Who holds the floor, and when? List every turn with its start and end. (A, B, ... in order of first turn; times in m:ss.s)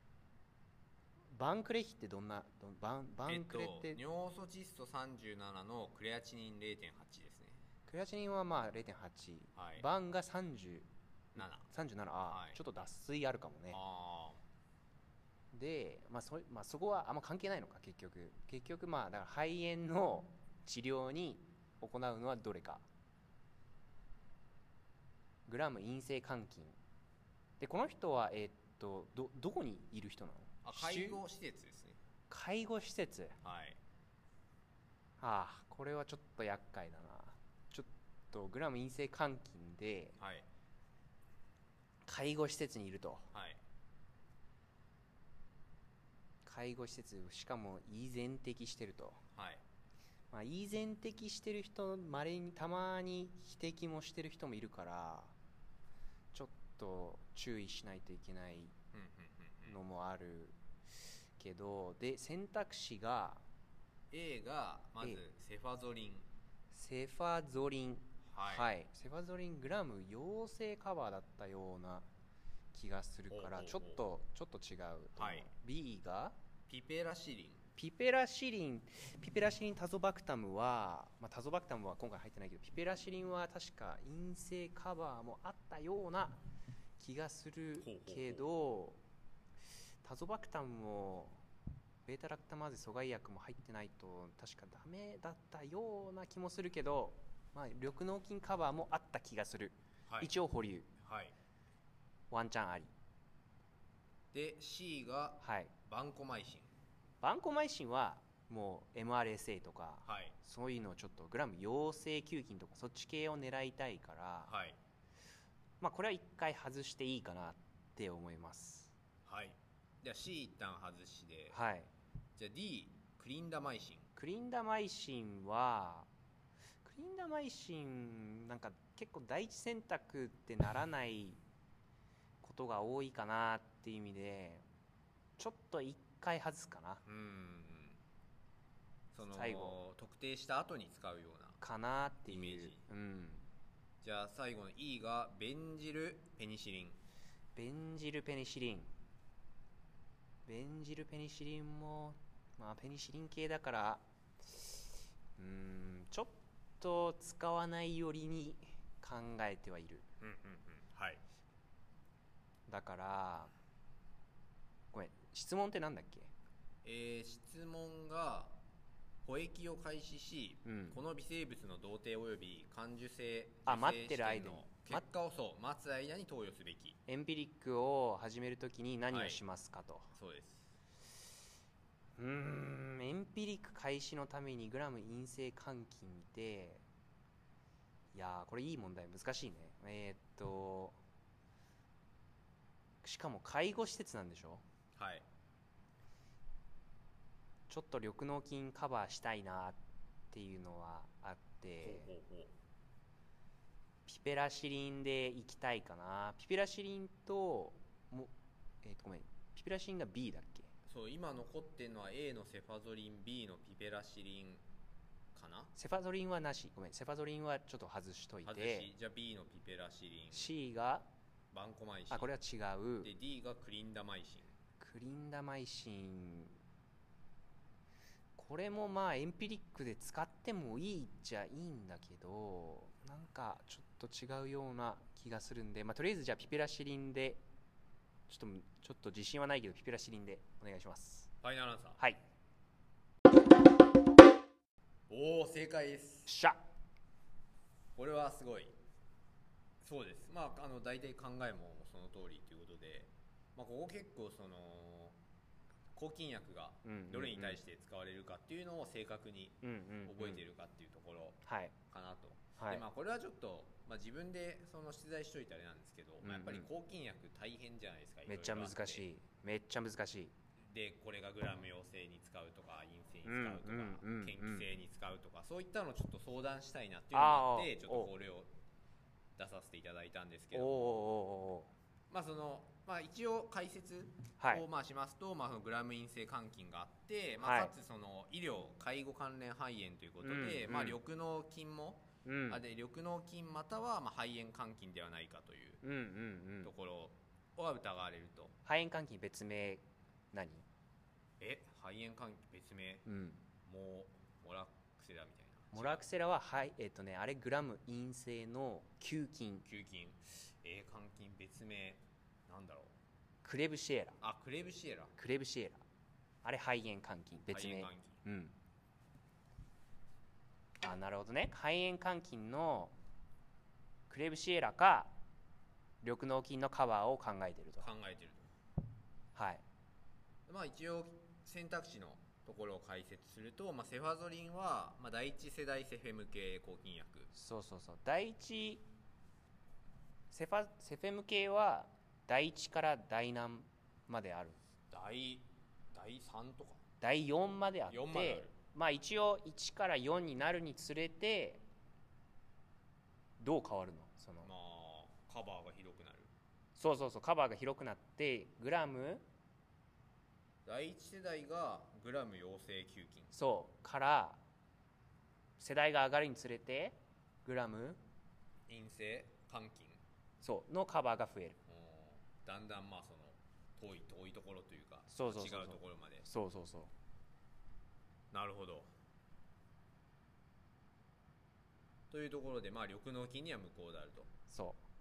0:01.3-0:04.0 A
0:03.3-0:07.6 B
0:07.9-0:13.8 A
0:09.6-0:09.8 B
0:11.4-0:11.7 B
0:12.3-0:12.6 B
0:13.7-0:14.4 B
0:15.5-0:22.8 A
0:25.5-0:26.8 A
0:27.6-0:31.2 A
0:30.6-0:32.0 B
0:32.3-0:33.4 A
0:33.4-0:33.8 B
0:35.2-0:40.2 A
0:40.2-0:40.5 B
0:42.0-0:43.3 A
0:43.3-0:43.6 B
0:46.4-0:49.2 A
0:49.4-0:49.6 B
0:50.3-0:55.3 A
0:56.3-0:58.7 A
0:58.9-0:59.8 B
0:59.7-1:00.6 A
1:01.4-1:03.4 A
1:04.1-1:06.3 B
1:06.7-1:12.1 A
1:08.2-1:08.7 B
1:12.7-1:16.4 A
1:13.3-1:14.0 B
1:15.2-1:15.5 B
1:16.7-1:17.6 B
1:17.8-1:26.4 A
1:27.0-1:29.0 A
1:27.8-1:28.4 B
1:30.0-1:31.4 A
1:32.1-1:40.9 A
1:41.0-1:41.3 B
1:42.3-1:42.9 A
1:44.3-1:46.7 B
1:45.4-1:45.7 A
1:47.2-1:54.5 A
1:50.1-1:50.4 B
1:54.5-1:54.8 B
1:55.8-1:58.9 A
1:59.3-2:01.6 B
2:01.5-2:01.9 A
2:02.4-2:04.1 B
2:04.2-2:06.1 A
2:06.8-2:11.4 A
2:12.4-2:14.6 A
2:15.4-2:17.0 A
2:17.0-2:18.0 B
2:19.1-2:21.6 B
2:19.3-2:19.8 A
2:21.6-2:23.5 A
2:22.3-2:22.8 B
2:24.0-2:27.0 B
2:27.6-2:28.9 A
2:30.5-2:40.1 A
2:40.2-2:41.2 B
2:42.7-2:43.5 A
2:44.9-2:46.3 A
2:46.8-2:48.5 B
2:49.2-2:57.0 B
2:50.6-2:51.0 A
2:53.7-2:55.0 A
2:57.1-3:00.1 A
2:59.1-2:59.4 B
3:00.1-3:00.7 B
3:02.2-3:06.8 A
3:08.1-3:11.0 A
3:13.0-3:14.6 A
3:15.0-3:15.2 B
3:17.7-3:19.8 A
3:20.3-3:22.1 A
3:21.8-3:22.5 B
3:24.1-3:28.3 A
3:28.8-3:30.7 A
3:30.9-3:34.6 B
3:35.4-3:35.7 B
3:35.8-3:38.9 A
3:38.4-3:40.5 B
3:40.3-3:41.1 A
3:41.5-3:42.3 B
3:42.1-3:43.1 A
3:43.0-3:44.5 B
3:44.8-3:46.6 A
3:48.4-3:57.4 A
3:58.3-4:01.3 A
4:01.4-4:02.0 B
4:05.1-4:06.3 B
4:06.3-4:06.6 A
4:08.0-4:08.7 B
4:09.8-4:15.2 B
4:16.0-4:29.0 B
4:16.8-4:17.6 A
4:19.6-4:20.4 A
4:21.4-4:21.7 A
4:22.6-4:22.8 A
4:26.2-4:26.7 A
4:28.3-4:30.3 A
4:30.6-4:38.5 B
4:33.2-4:34.7 A
4:37.1-4:38.1 A
4:39.4-4:41.0 B
4:40.5-4:41.7 A
4:42.1-4:55.8 B
4:44.4-4:44.6 A
4:47.4-4:47.7 A
4:50.2-4:51.0 A
4:52.2-4:52.6 A
4:55.8-4:56.7 A
4:56.6-4:58.6 B
4:58.6-5:00.6 A
5:01.4-5:03.1 B
5:03.1-5:03.4 A
5:03.6-5:06.0 B
5:05.7-5:09.6 A
5:09.6-5:12.9 B
5:13.4-5:14.2 A
5:14.2-5:15.2 B
5:15.2-5:15.8 A
5:16.4-5:18.6 A
5:17.5-5:18.2 B
5:20.8-5:22.9 A
5:24.1-5:25.1 A
5:26.0-5:27.9 A
5:27.8-5:28.5 B
5:29.4-5:29.6 A
5:30.5-5:37.3 B
5:37.3-5:38.8 A
5:40.3-5:44.6 A
5:44.9-5:46.8 B
5:47.0-5:51.6 A
5:47.9-5:48.5 B
5:53.4-5:54.5 A
5:54.4-5:56.3 B
5:56.8-5:59.2 A
6:00.7-6:03.3 B
6:03.3-6:04.4 A
6:05.6-6:08.0 A
6:08.7-6:10.0 B
6:10.4-6:11.6 A
6:11.7-6:16.3 B
6:15.1-6:16.9 A
6:18.3-6:18.9 B
6:22.1-6:24.3 B
6:24.5-6:24.8 A